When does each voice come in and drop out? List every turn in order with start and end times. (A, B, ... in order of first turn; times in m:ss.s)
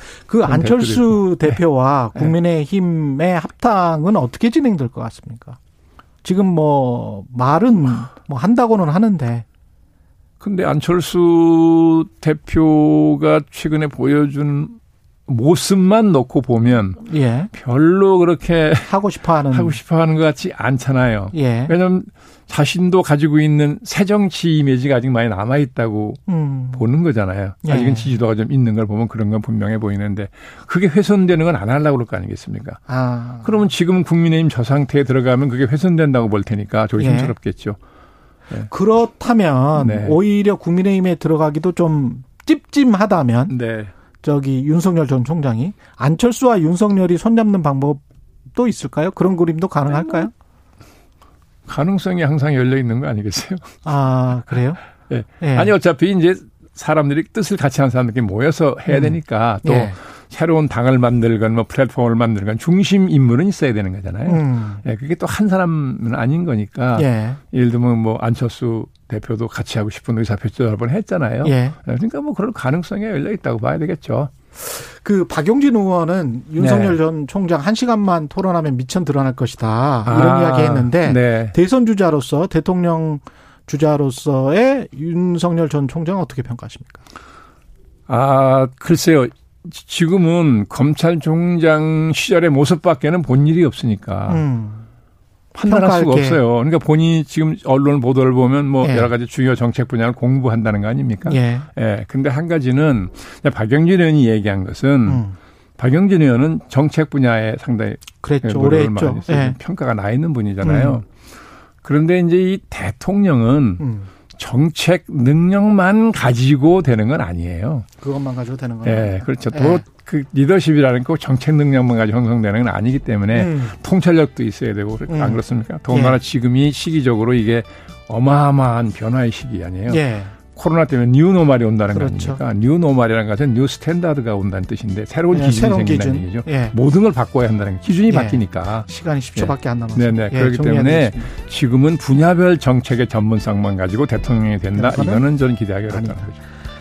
0:00.3-0:05.6 A
0:00.4-0:01.6 B
0:06.2-0:09.4 A
0:10.4-0:14.8 B
0:15.3-0:19.0 B
0:17.0-0:17.5 A
0:18.9-0:19.8 A
0:19.5-0:26.2 B
0:21.3-0:21.7 A
0:26.3-0:26.8 A
0:26.7-0:32.8 B
0:27.6-0:28.2 A
0:32.9-0:33.6 A
0:33.4-0:37.8 B
0:37.0-0:37.4 A
0:38.6-0:43.6 A
0:39.8-0:40.2 B
0:43.5-0:43.9 B
0:44.2-0:48.0 A
0:48.5-0:50.3 A
0:49.9-0:50.3 B
0:51.7-0:53.7 B
0:53.8-0:54.8 A
0:55.1-1:14.3 B
0:55.4-0:55.7 A
0:58.9-1:00.0 A
1:04.3-1:04.8 A
1:06.9-1:07.4 A
1:11.4-1:11.8 A
1:14.6-1:27.0 A
1:16.6-1:17.0 B
1:20.1-1:21.6 B
1:28.1-1:34.4 B
1:34.3-1:34.9 A
1:35.5-1:45.2 B
1:35.6-1:36.4 A
1:38.8-1:39.1 A
1:41.3-1:41.7 A
1:45.1-1:45.4 A
1:45.8-1:51.1 B
1:48.2-1:49.6 A
1:50.6-1:51.0 A
1:51.8-1:53.8 B
1:53.8-1:54.1 A
1:54.4-1:57.9 B
1:58.0-1:59.8 A
1:58.8-2:26.4 B
2:03.3-2:03.8 A
2:05.1-2:06.2 A
2:09.9-2:10.4 A
2:11.9-2:12.4 A
2:15.3-2:16.8 A
2:18.1-2:21.3 A
2:24.7-2:25.3 A
2:25.9-2:26.3 A